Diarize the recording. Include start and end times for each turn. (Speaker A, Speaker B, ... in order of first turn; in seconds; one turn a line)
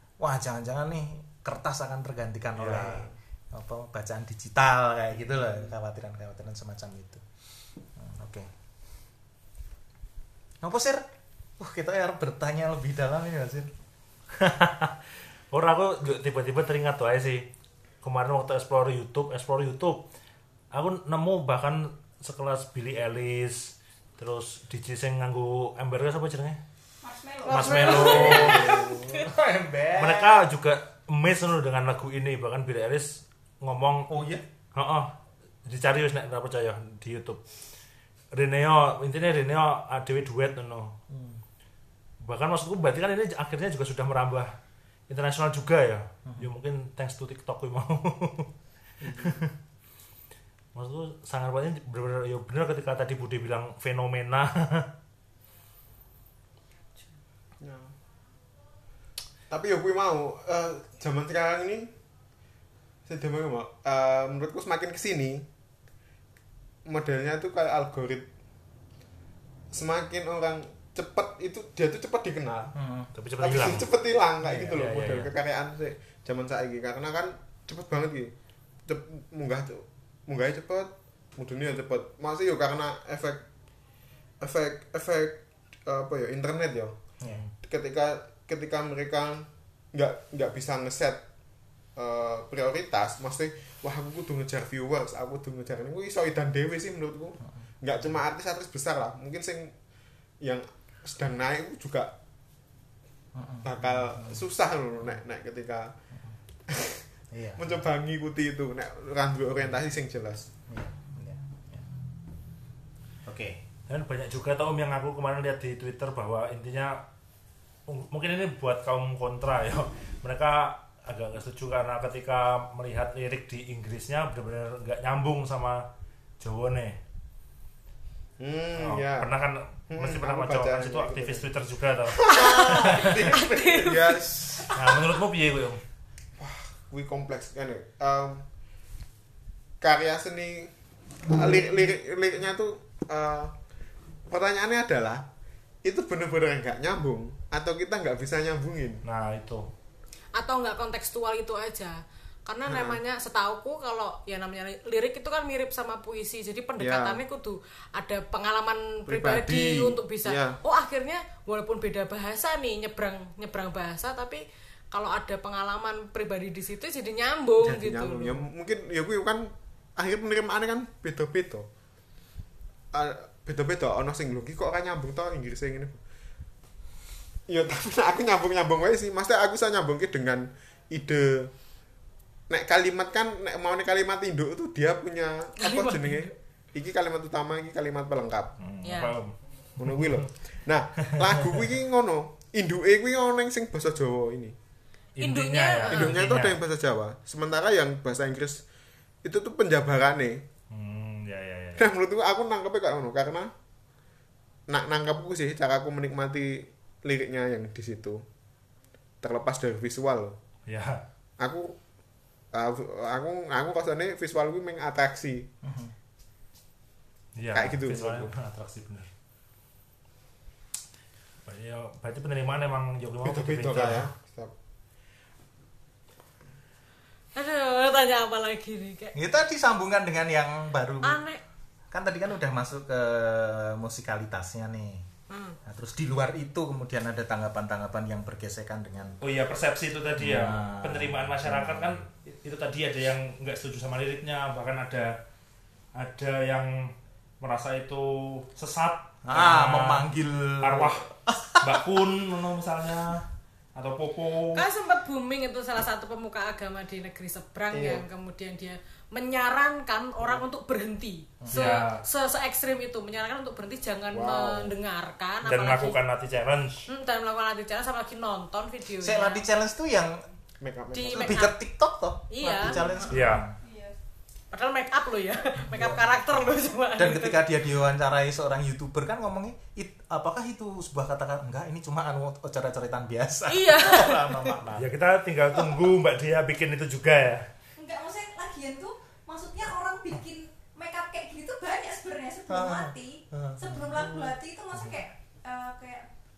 Speaker A: 0.2-7.2
Speaker B: 2.6-3.0
Speaker A: 8.0-8.5
Speaker A: 10.6-11.1
Speaker A: 11.6-13.7
Speaker B: 14.4-14.9
Speaker B: 15.5-17.5
Speaker B: 18.0-20.1
Speaker B: 20.7-26.6
Speaker C: 27.0-28.7
Speaker D: 27.4-29.3
Speaker B: 27.5-28.8
Speaker A: 28.2-30.4
Speaker B: 29.9-34.1
Speaker A: 34.1-34.4
Speaker B: 34.8-35.1
Speaker B: 35.6-37.4
Speaker B: 38.3-41.0
Speaker A: 41.1-41.4
Speaker B: 42.2-44.5
Speaker B: 45.1-48.5
Speaker E: 49.0-49.3
Speaker B: 49.2-49.5
Speaker B: 50.7-54.9
Speaker E: 57.6-57.9
Speaker E: 59.5-61.9
Speaker E: 63.1-65.5
Speaker E: 66.9-68.3
Speaker E: 69.7-72.7
Speaker A: 72.8-73.1
Speaker B: 73.2-73.9
Speaker E: 73.4-78.3
Speaker B: 74.4-75.3
Speaker E: 78.9-83.5
Speaker E: 84.4-87.0
Speaker B: 87.2-87.5
Speaker E: 87.6-91.2
Speaker E: 92.0-99.7
Speaker E: 100.4-102.2
Speaker A: 103.3-104.4
Speaker E: 103.6-106.0
Speaker E: 106.7-107.1
Speaker A: 107.3-107.8
Speaker E: 107.6-110.5
Speaker A: 110.7-111.8
Speaker A: 113.3-113.6
Speaker B: 113.9-117.0
Speaker B: 117.9-125.8
Speaker B: 126.4-127.0
Speaker E: 128.4-129.3
Speaker B: 128.8-133.2
Speaker E: 129.9-131.5
Speaker E: 132.1-134.8
Speaker D: 132.3-134.7
Speaker B: 134.7-135.8
Speaker E: 136.4-138.4
Speaker E: 139.8-140.7
Speaker E: 141.3-143.5
Speaker E: 144.3-145.3
Speaker E: 145.8-149.0
Speaker B: 149.0-149.7
Speaker D: 150.4-168.4
Speaker E: 152.7-153.0
Speaker E: 156.8-157.2
Speaker E: 159.1-160.6
Speaker E: 167.6-171.7
Speaker E: 172.9-176.0
Speaker E: 177.5-181.5
Speaker E: 182.5-188.5
Speaker D: 185.6-186.3
Speaker B: 188.6-190.3
Speaker D: 188.8-189.2
Speaker E: 189.8-194.6
Speaker B: 195.2-196.6
Speaker D: 195.2-196.2
Speaker E: 195.9-198.6
Speaker E: 199.2-200.5
Speaker B: 200.7-201.9
Speaker E: 201.8-203.5
Speaker E: 204.7-208.2
Speaker E: 209.2-210.4
Speaker B: 210.7-211.0
Speaker E: 211.4-211.8
Speaker E: 212.5-215.5
Speaker A: 215.6-215.9
Speaker B: 217.4-219.1
Speaker E: 217.5-218.3
Speaker B: 221.4-224.1
Speaker E: 223.2-224.5
Speaker D: 227.3-229.2
Speaker A: 229.2-231.2
Speaker D: 231.0-231.4
Speaker A: 231.9-235.1
Speaker D: 235.3-235.6
Speaker A: 235.7-239.2
Speaker B: 239.2-245.2
Speaker A: 240.2-242.0
Speaker B: 246.0-251.1
Speaker A: 249.2-251.8
Speaker B: 251.6-254.7
Speaker D: 254.5-266.0
Speaker E: 257.7-258.1
Speaker A: 261.4-261.8
Speaker B: 261.5-262.0
Speaker E: 264.1-264.8
Speaker B: 265.4-266.9
Speaker D: 266.9-269.4
Speaker A: 269.0-270.2
Speaker E: 270.6-271.5
Speaker D: 270.9-271.6
Speaker A: 271.1-273.5
Speaker D: 272.3-272.8
Speaker E: 272.6-272.9
Speaker B: 273.1-273.5
Speaker C: 273.6-273.9
Speaker D: 274.5-277.4
Speaker A: 277.0-284.9
Speaker D: 283.5-284.6
Speaker B: 284.8-287.4
Speaker C: 287.8-296.1
Speaker A: 292.5-294.3